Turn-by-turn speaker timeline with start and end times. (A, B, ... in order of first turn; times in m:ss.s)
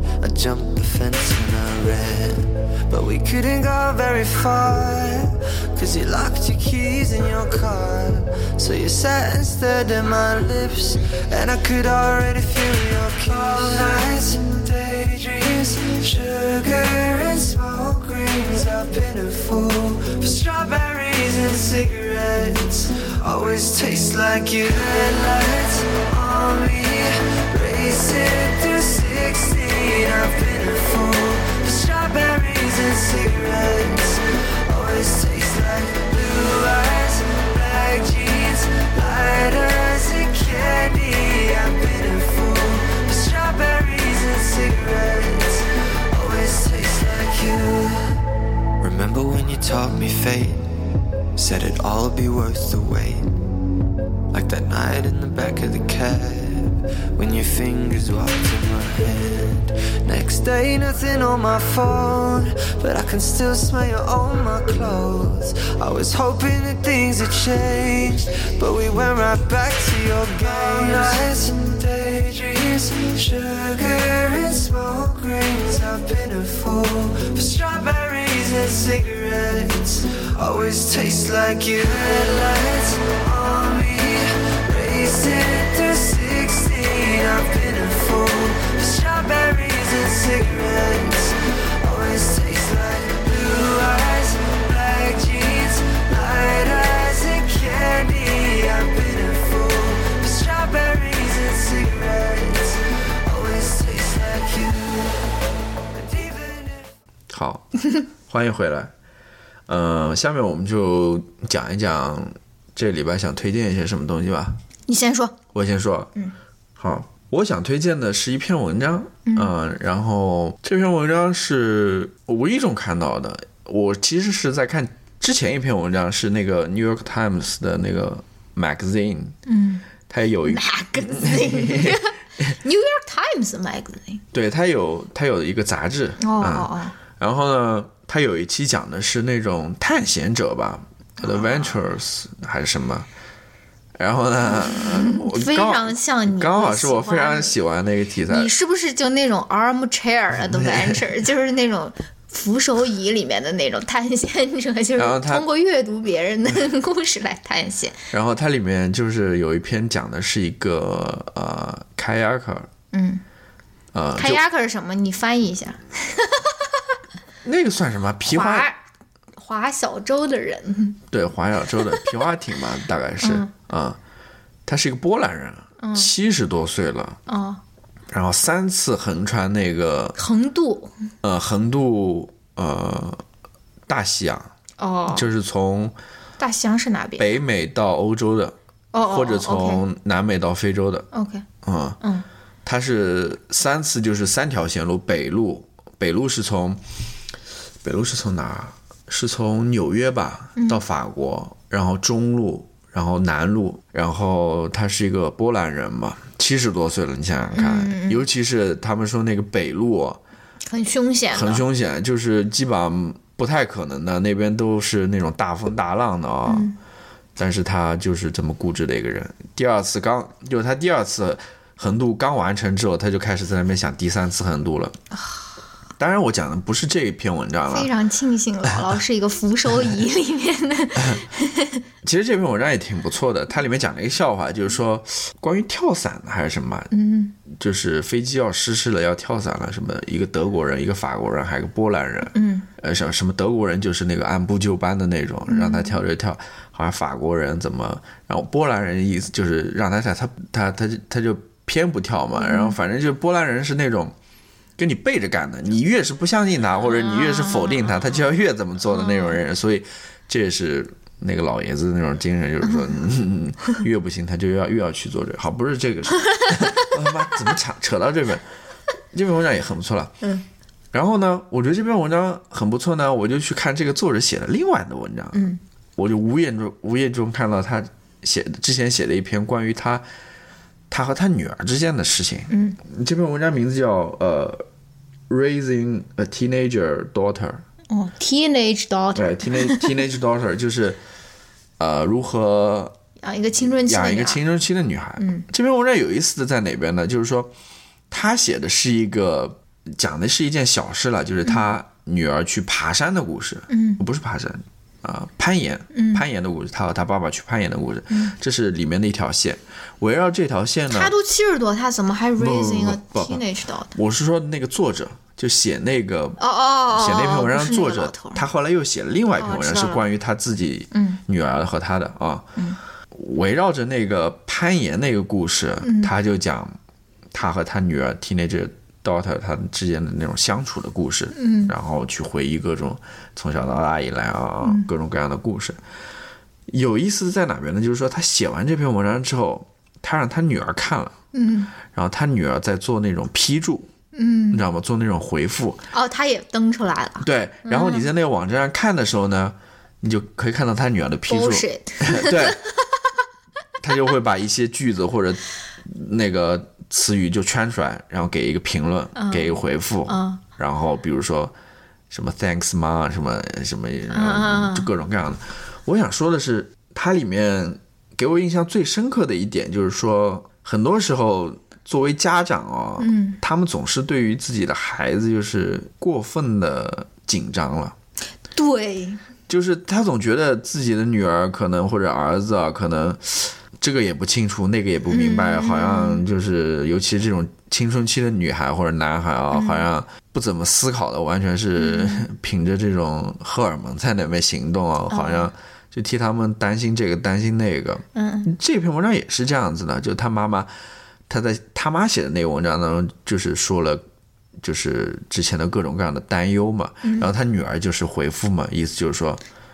0:00.2-0:48.2 A
0:48.8-0:53.3 A
0:54.3-1:45.3 A
1:45.9-1:46.9 A
1:47.3-1:47.7 B
1:48.3-1:48.9 B
1:49.7-1:54.6 B
1:54.9-1:55.4 C
1:55.5-1:56.1 B
1:56.8-2:09.4 B
1:59.3-1:59.5 C
2:09.5-2:09.9 C
2:10.1-2:12.0 B
2:10.4-2:14.2 C
2:14.3-2:23.1 B
2:16.2-2:17.0 C
2:24.0-2:28.5 B
2:24.6-2:27.6 C
2:28.3-2:38.0 C
2:30.5-2:31.0 B
2:35.0-2:35.5 B
2:38.1-2:42.7 B
2:42.9-2:43.2 C
2:43.9-2:44.4 B
2:44.2-2:46.7 C
2:47.4-2:48.7 B
2:48.3-2:48.8 C
2:49.4-2:51.0 C
2:51.1-2:54.0 B
2:51.8-2:52.1 C
2:53.2-2:53.5 C
2:54.7-2:57.2 B
2:55.8-2:56.1 C
2:57.3-2:57.6 C
2:58.1-3:00.2 B
3:00.2-3:00.9 C
3:01.2-3:03.2 B
3:03.9-3:04.5 B
3:04.8-3:05.3 C
3:05.1-3:06.0 B
3:06.4-3:07.4 C
3:07.2-3:11.1 B
3:08.9-3:09.8 C
3:11.1-3:11.4 C
3:11.6-3:12.0 B
3:12.0-3:12.3 C
3:12.6-3:16.8 B
3:17.8-3:30.2 B
3:20.6-3:20.8 C
3:27.6-3:28.2 C
3:30.7-3:31.6 C
3:31.3-3:36.7 B
3:36.5-3:36.8 C
3:37.4-3:45.0 B
3:45.1-3:45.4 C
3:46.0-3:47.9 B
3:47.7-3:51.8 C
3:52.0-3:56.9 B
3:56.9-3:57.4 C
3:57.5-4:14.2 B
4:02.3-4:02.7 C
4:05.5-4:06.0 C
4:12.4-4:12.8 C
4:14.8-4:28.4 B
4:16.9-4:17.9 C
4:18.9-4:19.4 C
4:22.7-4:23.0 C
4:26.3-4:26.9 C
4:29.1-4:30.2 B
4:30.9-4:35.5 B
4:35.3-4:35.6 C
4:36.0-4:40.0 B
4:40.9-4:44.6 B
4:42.5-4:42.8 C
4:45.3-4:47.6 B
4:47.9-4:50.0 C
4:49.1-4:51.0 B
4:51.8-4:53.0 B
4:53.2-4:54.4 C
4:53.8-4:57.5 B
4:55.2-4:55.5 C
4:58.1-5:11.1 B
5:01.5-5:01.7 C
5:03.7-5:04.0 C
5:05.9-5:06.2 C
5:10.9-5:13.9 C
5:12.4-5:13.4 B
5:13.9-5:16.4 B
5:16.4-5:18.4 C
5:16.9-5:22.5 B
5:19.4-5:20.0 C
5:20.9-5:21.2 C
5:23.1-5:26.7 B
5:25.8-5:26.1 C
5:27.3-5:35.8 B
5:31.3-5:31.7 C
5:36.7-5:41.1 B
5:41.3-5:41.7 C
5:41.9-5:43.9 B
5:44.1-5:44.6 C
5:44.5-5:45.8 B
5:45.9-5:48.1 C
5:47.2-5:52.6 B
5:51.3-5:53.0 C
5:53.8-6:01.5 B
5:59.2-6:00.4 C
6:02.1-6:18.0 B
6:04.1-6:04.9 C
6:13.0-6:13.4 C
6:18.6-6:19.2 C
6:19.5-6:40.7 B
6:25.1-6:26.2 C
6:29.5-6:29.9 C
6:31.8-6:32.3 C
6:35.1-6:35.5 C
6:38.2-6:38.5 C
6:41.3-6:44.0 B
6:44.6-6:49.4 B
6:47.0-6:47.3 C